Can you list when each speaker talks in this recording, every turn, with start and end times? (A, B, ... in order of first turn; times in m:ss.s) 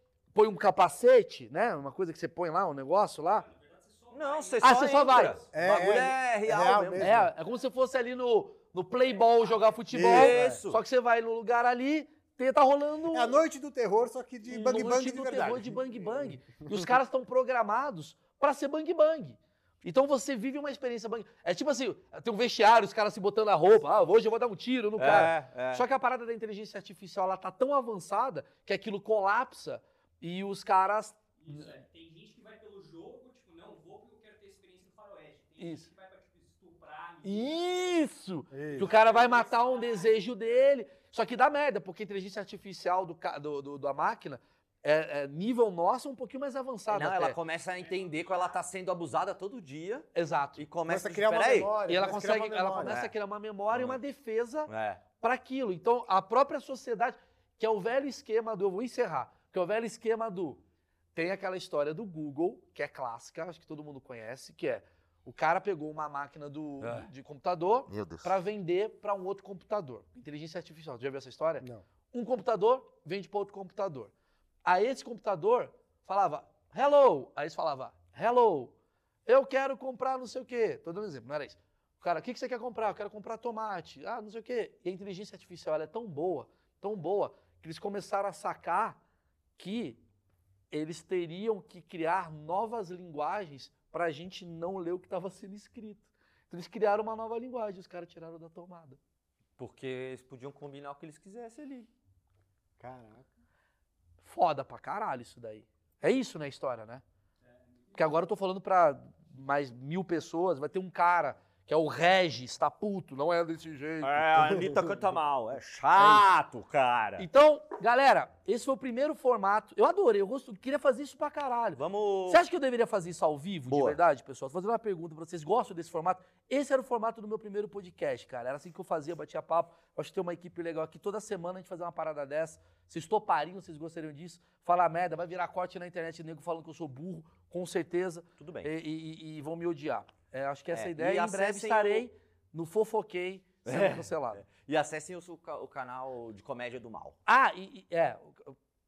0:00.3-0:03.5 A
0:03.3-0:05.6 B
0:04.1-0:07.2 C
0:04.6-0:05.4 A
0:05.5-0:07.3 D
0:07.0-0:13.4 A
0:09.9-0:10.6 D
0:10.0-0:10.8 C
0:13.1-0:16.8 D
0:14.4-0:31.7 A
0:25.0-0:25.8 C
0:31.4-0:38.1 B
0:35.6-0:35.9 A
0:37.2-0:47.4 A
0:38.5-0:38.9 D
0:38.6-0:40.2 B
0:46.9-0:51.8 C
0:50.1-0:50.6 A
0:50.9-0:53.0 D
0:51.9-1:00.6 A
0:52.8-0:53.1 C
0:53.7-0:54.0 C
0:54.7-0:55.0 C
1:01.1-1:14.1 A
1:06.8-1:07.1 C
1:07.9-1:08.4 C
1:14.6-1:18.7 A
1:19.2-1:29.0 A
1:29.6-1:30.0 A
1:30.7-1:39.0 A
1:39.6-1:41.9 C
1:42.8-1:43.3 D
1:44.2-1:47.0 A
1:47.9-1:54.4 A
1:54.0-1:57.3 C
1:56.0-1:56.2 A
1:57.2-2:24.4 A
2:01.8-2:02.4 C
2:03.7-2:04.0 C
2:18.4-2:18.7 C
2:20.7-2:22.1 C
2:23.6-2:27.2 C
2:27.2-2:28.5 A